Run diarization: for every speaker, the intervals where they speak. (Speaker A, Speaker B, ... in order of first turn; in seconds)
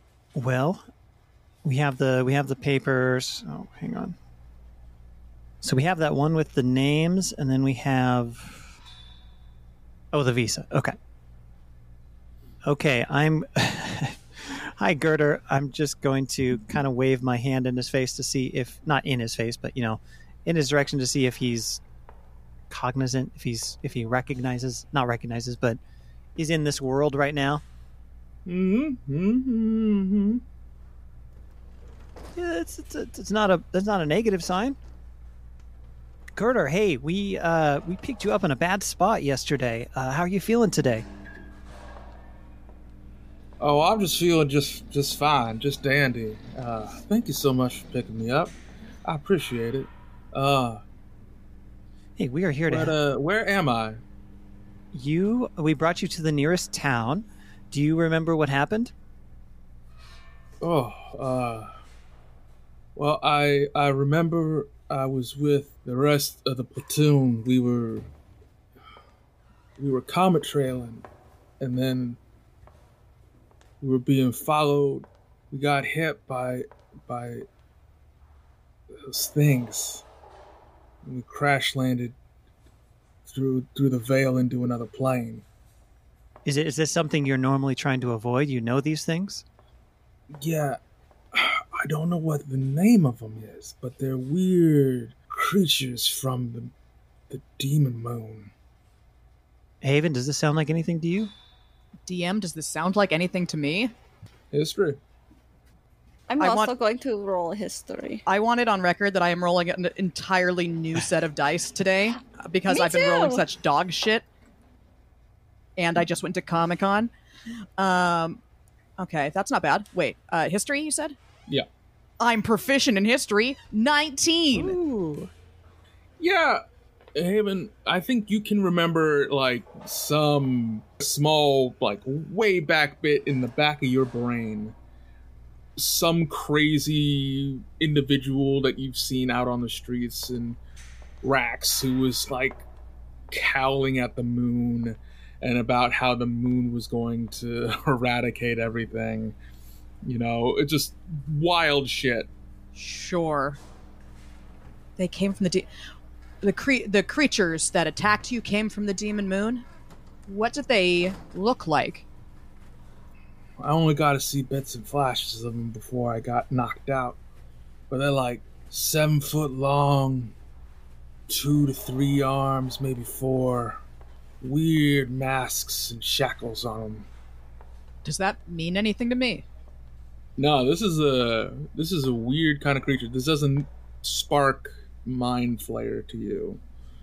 Speaker A: 0.3-0.8, 1.6-4.2, 5.6-8.8, 10.1-10.9, 12.7-21.8, 22.7-25.8, 26.4-27.6, 32.4-34.8, 36.3-41.0, 52.2-53.0, 54.9-58.9, 86.4-89.4, 99.8-101.3
Speaker B: 28.4-30.4, 43.6-50.8, 52.7-54.0, 60.6-61.7, 62.9-68.1, 69.8-71.0, 71.6-72.2, 73.8-77.5, 79.0-80.0, 81.0-82.2, 83.2-85.4, 90.3-90.8, 91.3-96.7, 97.3-98.5, 104.5-105.0, 124.5-125.3, 126.2-126.6, 127.1-134.7, 135.8-140.6, 141.2-142.6, 143.3-149.3, 150.0-152.3, 163.6-167.2, 167.9-170.3, 171.3-173.8, 174.4-177.1, 180.4-186.6
Speaker C: 102.1-103.9, 106.4-106.7, 108.2-114.2, 115.8-117.1, 117.8-118.4, 119.0-121.2, 122.2-124.8, 152.7-153.6, 155.0-155.7, 156.4-159.6, 160.3-162.1, 178.0-179.4
Speaker D: 106.3-108.2, 112.7-113.4